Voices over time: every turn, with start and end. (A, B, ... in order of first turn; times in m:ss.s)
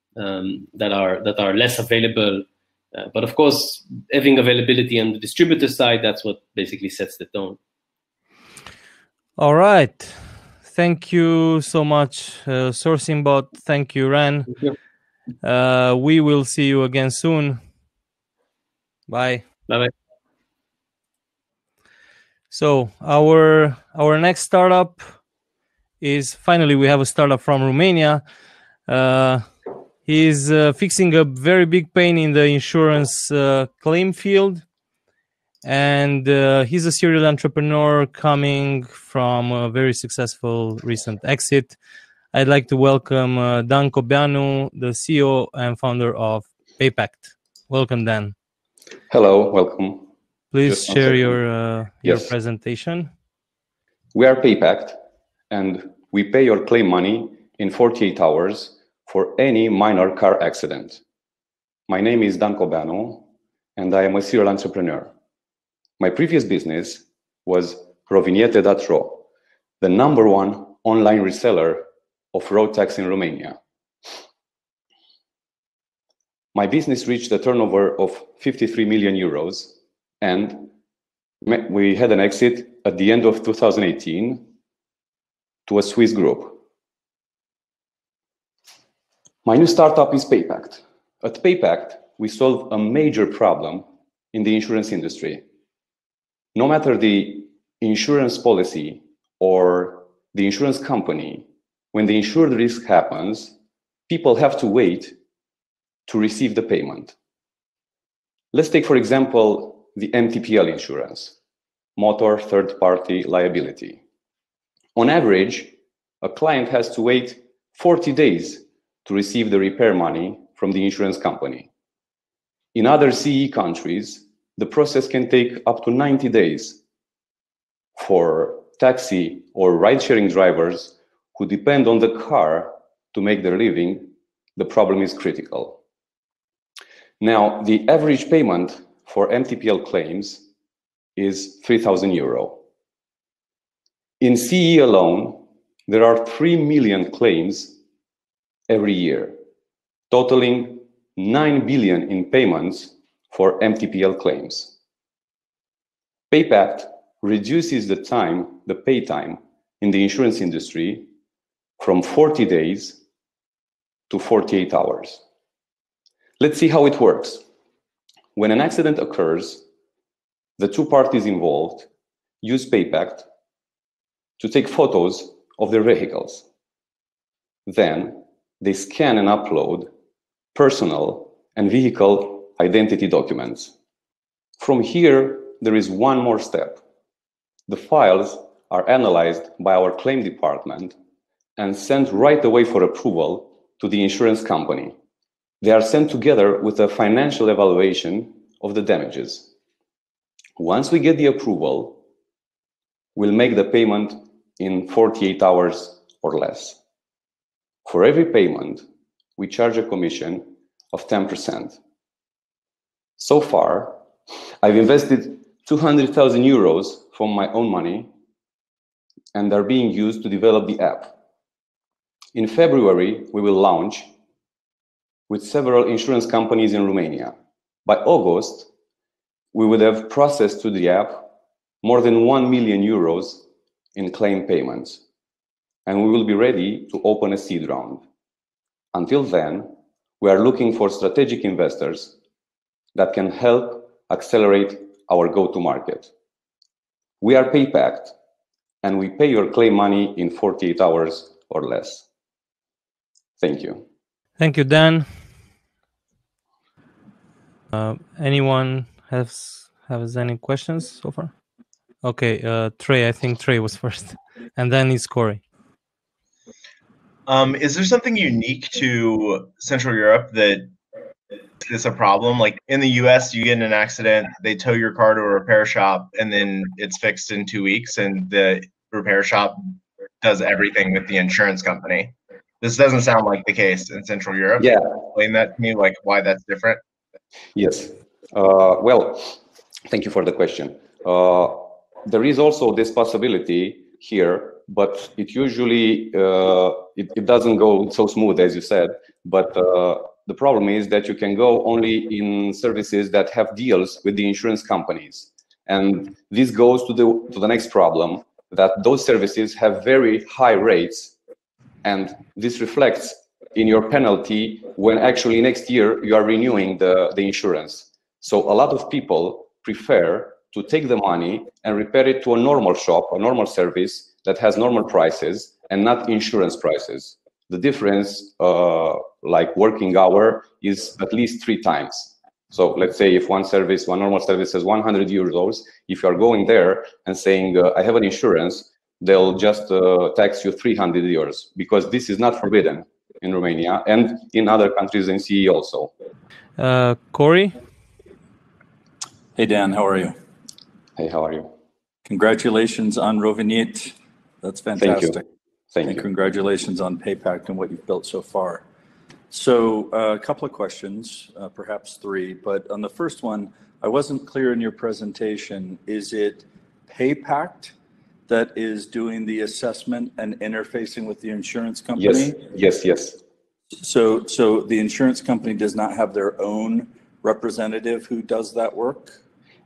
0:00.2-0:07.6 A
0:09.4-0:14.5 B
0:14.5-0:14.8 A
0:15.4-0:17.6 B
0:19.1-0:19.5 B
0:22.5-0:25.0 B
0:26.0-0:28.2 B
0:28.9-0:29.5 B
0:30.1-0:34.6 B
0:35.6-0:41.8 B
0:42.3-0:48.3 B
0:49.1-0:50.1 C
0:50.5-0:53.1 B
0:50.6-0:51.4 C
0:52.0-0:52.3 C
0:54.1-0:55.0 C
0:55.5-1:01.0 C
1:01.9-1:03.2 C
1:03.8-1:05.1 C
1:06.0-1:09.2 C
1:09.8-1:13.6 C
1:16.5-1:20.7 C
1:21.4-1:24.4 C
1:25.7-1:26.6 C
1:29.4-1:35.4 C
1:36.6-1:43.5 C
1:44.1-1:45.2 C
1:46.1-1:47.1 C
1:48.5-1:51.4 C
1:52.0-1:54.0 C
1:55.0-2:01.7 C
2:02.8-2:06.8 C
2:08.0-2:15.8 C
2:17.2-2:20.4 C
2:21.2-2:22.6 C
2:24.2-2:27.8 C
2:28.7-2:29.4 C
2:30.1-2:34.7 C
2:36.3-2:41.1 C
2:41.8-2:43.0 C
2:44.1-2:45.2 C
2:46.4-2:47.4 C
2:48.4-2:49.6 C
2:50.6-2:51.9 C
2:52.4-2:53.3 C
2:54.4-2:56.4 C
2:57.7-2:59.9 C
3:00.5-3:03.7 C
3:04.6-3:06.8 C
3:07.7-3:11.0 C
3:11.6-3:15.0 C
3:15.6-3:19.5 C
3:20.6-3:22.0 C
3:23.2-3:26.8 C
3:27.9-3:28.8 C
3:29.4-3:31.8 C
3:33.2-3:34.0 C
3:34.6-3:38.1 C
3:39.3-3:41.1 C
3:42.3-3:44.1 C
3:45.3-3:48.7 C
3:49.5-3:51.3 C
3:51.8-3:53.4 C
3:54.0-3:55.0 C
3:55.9-3:58.0 C
3:58.9-4:02.2 C
4:03.0-4:06.1 C
4:07.2-4:08.1 C
4:08.8-4:12.0 C
4:13.4-4:13.8 C
4:14.4-4:15.1 B
4:17.7-4:21.3 B
4:22.0-4:25.4 B
4:27.3-4:30.7 D
4:31.6-4:46.8 D
4:44.6-4:45.0 C
4:47.6-5:11.1 C
5:11.8-5:45.9 C
5:46.6-5:47.6 B
5:49.4-5:50.2 E
5:51.0-5:51.5 C
5:52.1-5:55.2 E
5:54.8-5:55.2 C
5:55.7-5:56.1 C
5:55.9-5:58.6 E
5:59.3-6:07.7 E
6:08.3-6:12.5 E
6:12.0-6:13.2 C
6:13.8-6:19.2 E